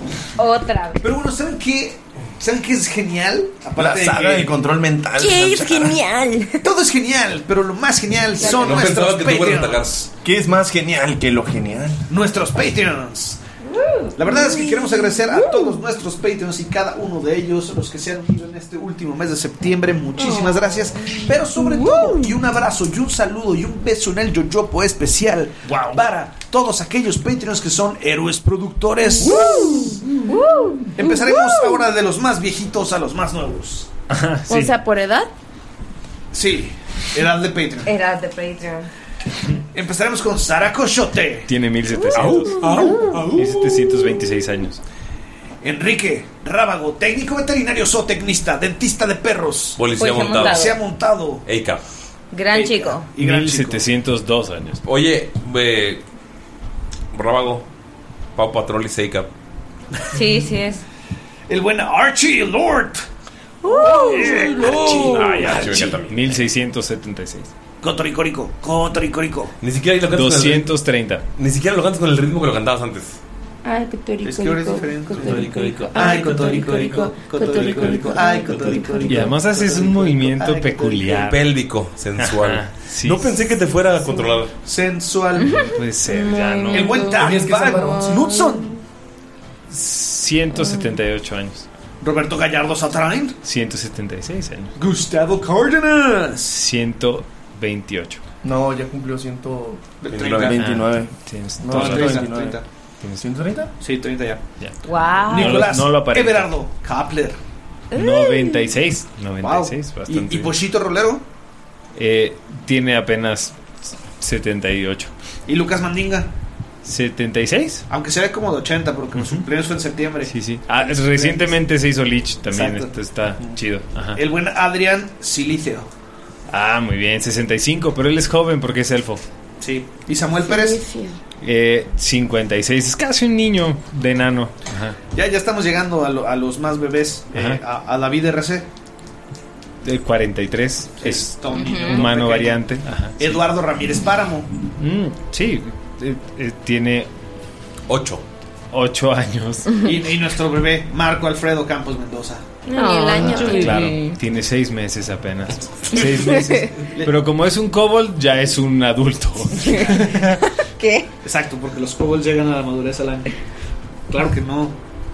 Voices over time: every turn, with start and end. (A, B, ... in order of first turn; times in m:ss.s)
0:00.4-0:01.0 A
0:01.0-0:04.5 B
0:03.8-0:06.0 C
0:05.2-0:06.6 A
0:06.6-0:10.1 B
0:08.4-0:08.9 A
0:08.4-0:09.9 D
0:10.2-0:12.0 C
0:12.1-0:13.4 B
0:13.7-0:15.8 A
0:14.2-0:30.1 B
0:20.2-0:22.2 A
0:25.7-0:26.0 E
0:29.2-0:29.6 A
0:29.6-0:29.9 F
0:30.3-0:31.2 A
0:31.0-0:33.9 B
0:34.1-0:34.8 E
0:34.5-0:35.3 F
0:36.3-0:37.9 B
0:37.9-0:38.9 A
0:39.7-0:41.5 B
0:41.5-0:42.6 E
0:42.2-0:43.3 D
0:42.6-0:43.7 B
0:42.6-0:43.1 A
0:43.3-0:44.8 E
0:45.6-0:49.8 B
0:49.8-0:50.7 D
0:50.0-0:50.8 A
0:50.4-0:51.4 B
0:51.4-0:51.8 D
0:52.3-0:53.1 A
0:52.5-0:53.9 B
0:53.2-0:54.8 E
0:54.8-0:56.0 D
0:57.1-0:57.7 D
0:58.4-0:59.3 D
1:00.1-1:00.8 A
1:01.5-1:03.0 B
1:03.7-1:05.2 A
1:03.7-1:06.0 B
1:04.0-1:07.5 E
1:04.7-1:06.3 D
1:07.8-1:09.5 B
1:09.6-1:10.7 D
1:10.1-1:11.2 E
1:11.4-1:13.2 D
1:13.6-1:19.2 F
1:14.2-1:21.2 B
1:19.0-1:21.4 E
1:21.1-1:24.5 D
1:22.2-1:23.4 E
1:24.1-1:24.4 F
1:24.6-1:25.5 B
1:25.4-1:25.8 A
1:25.5-1:27.3 E
1:26.0-1:28.7 F
1:26.7-1:28.7 B
1:27.7-1:28.0 C
1:29.7-1:31.7 E
1:32.0-1:33.4 B
1:33.4-1:34.8 E
1:34.8-1:36.5 B
1:36.5-1:38.2 E
1:38.4-1:42.6 C
1:40.0-1:40.6 B
1:40.1-1:40.6 D
1:40.6-1:42.4 E
1:41.7-1:42.6 B
1:43.0-1:43.3 E
1:43.2-1:43.7 C
1:43.8-1:44.4 B
1:44.6-1:46.5 E
1:44.8-1:45.6 A
1:45.2-1:47.4 B
1:47.9-1:50.5 E
1:48.0-1:48.6 A
1:49.4-1:51.3 B
1:52.0-1:55.1 E
1:55.5-1:56.3 B
1:56.8-1:57.9 E
1:57.9-2:01.6 B
1:59.2-1:59.4 E
2:00.2-2:04.2 E
2:02.5-2:03.6 B
2:04.2-2:05.9 B
2:06.5-2:09.2 E
2:09.6-2:10.8 B
2:10.5-2:11.2 A
2:11.4-2:15.0 E
2:15.1-2:18.7 B
2:17.3-2:17.6 E
2:19.8-2:23.4 E
2:21.0-2:24.5 B
2:21.5-2:22.1 A
2:24.8-2:27.1 E
2:27.9-2:28.2 D
2:28.7-2:29.8 E
2:29.8-2:32.5 B
2:32.7-2:33.8 F
2:32.7-2:34.2 A
2:33.4-2:40.4 E
2:36.0-2:36.7 A
2:39.6-2:40.0 A
2:40.6-2:41.1 A
2:41.2-2:43.4 B
2:44.1-2:44.8 B